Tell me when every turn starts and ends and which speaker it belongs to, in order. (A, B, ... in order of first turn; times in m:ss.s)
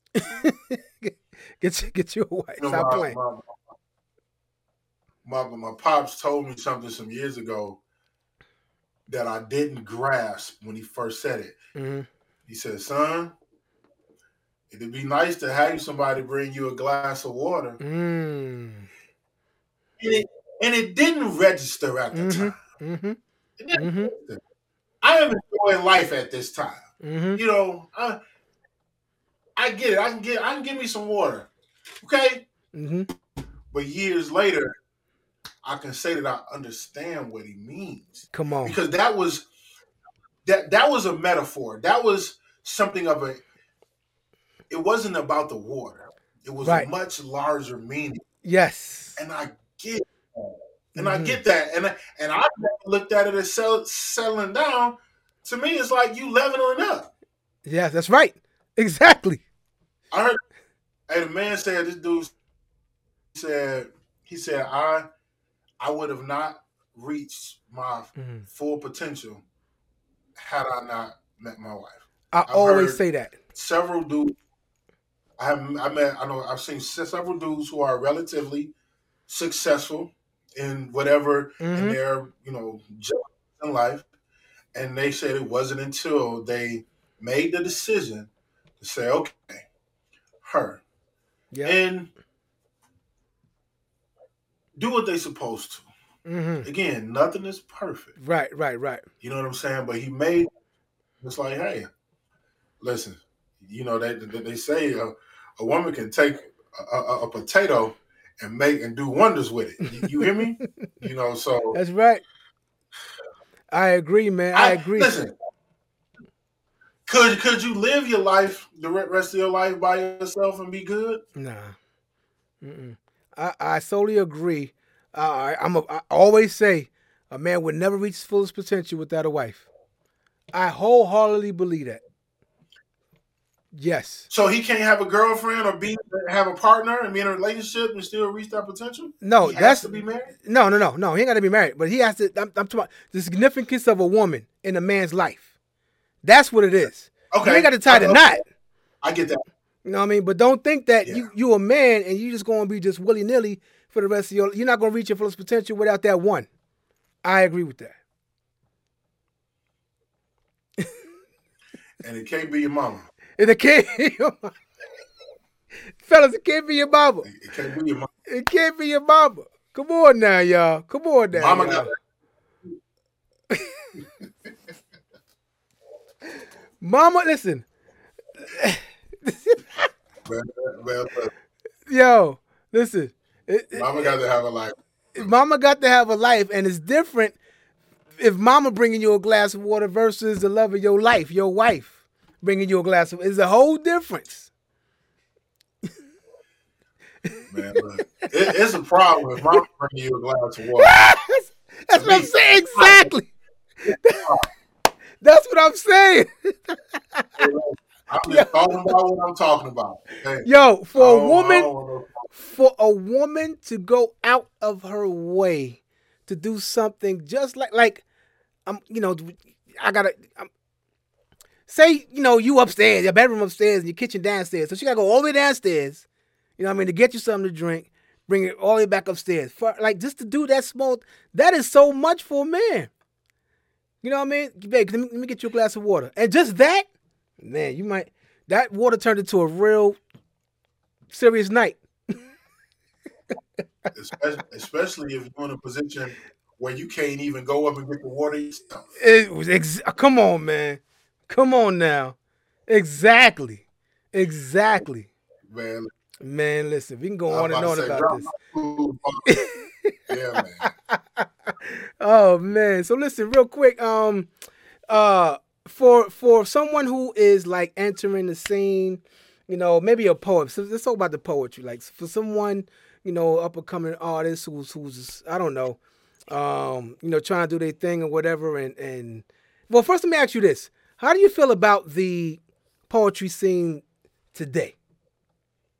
0:00.1-0:03.2 A
0:02.6-0:03.5 B
0:05.2-0:07.8 B
0:09.1-0:11.6 B
0:11.7-0:12.1 A
0:12.5-0:13.3 B
0:14.7-0:17.8 B
0:17.8-0:18.9 A
0:20.0-0:22.6 B
0:22.1-0:23.2 A
0:23.6-0:24.4 B
0:23.8-0:24.1 A
0:25.0-0:28.2 B
0:27.0-0:27.4 A
0:29.6-0:31.5 B
0:32.0-0:32.4 B
0:32.7-0:33.1 A
0:33.7-0:34.7 B
0:35.6-0:39.4 B
0:38.3-0:38.8 A
0:40.4-0:43.4 B
0:44.7-0:48.2 B
0:46.6-0:46.9 A
0:48.4-0:49.2 A
0:49.2-0:57.1 B
0:50.9-0:51.4 A
0:57.6-0:59.4 A
1:00.1-1:00.4 B
1:01.1-1:02.3 B
1:03.3-1:05.1 B
1:05.8-1:09.4 B
1:08.2-1:08.4 A
1:10.4-1:13.0 B
1:12.3-1:13.4 A
1:13.5-1:14.3 B
1:15.4-1:18.7 B
1:19.3-1:24.0 B
1:21.6-1:22.0 A
1:24.7-1:29.6 B
1:30.4-1:30.8 B
1:31.5-1:31.8 A
1:31.6-1:32.1 B
1:34.8-1:35.9 B
1:36.2-1:36.7 A
1:36.6-1:38.1 B
1:38.2-1:39.0 A
1:39.2-1:40.5 B
1:41.2-1:41.9 B
1:42.8-1:51.8 B
1:50.0-1:50.9 A
1:51.7-1:52.2 A
1:53.7-1:55.1 A
1:54.5-1:55.3 B
1:57.1-2:01.2 B
2:01.4-2:01.8 A
2:02.6-2:09.7 A
2:10.5-2:12.0 A
2:13.7-2:14.3 A
2:14.3-2:20.3 B
2:19.2-2:25.5 A
2:26.2-2:28.4 A
2:27.3-2:28.3 B
2:29.0-2:29.4 B
2:29.8-2:36.5 A
2:37.2-2:38.0 A
2:42.0-2:43.1 B
2:43.4-2:44.5 A
2:46.0-2:47.3 A
2:47.2-2:48.1 B
2:48.3-2:51.9 A
2:51.3-2:52.0 B
2:53.5-2:53.9 A
2:56.8-2:57.6 A
2:58.5-2:59.9 A
3:00.2-3:01.3 B
3:01.9-3:04.1 A
3:03.7-3:05.3 B
3:05.1-3:07.4 A
3:08.2-3:14.5 A
3:17.2-3:18.0 A
3:17.5-3:20.9 B
3:20.8-3:23.3 A
3:21.9-3:23.1 B
3:23.8-3:24.3 A
3:23.9-3:24.5 B
3:25.2-3:27.5 A
3:27.4-3:32.2 B
3:28.2-3:28.9 A
3:30.4-3:31.7 A
3:32.3-3:38.0 A
3:38.6-3:40.5 A
3:41.7-3:46.0 A
3:46.6-3:52.9 A
3:54.0-3:56.8 A
3:57.4-4:00.0 A
4:01.1-4:02.2 A
4:03.9-4:08.8 B
4:09.0-4:12.2 A
4:12.7-4:15.1 A
4:15.5-4:15.9 B
4:16.2-4:18.3 A
4:17.3-4:19.4 B
4:19.2-4:20.0 A
4:20.1-4:20.7 B
4:20.6-4:24.3 A
4:24.9-4:35.8 A
4:36.3-4:43.8 A
4:44.3-4:44.8 A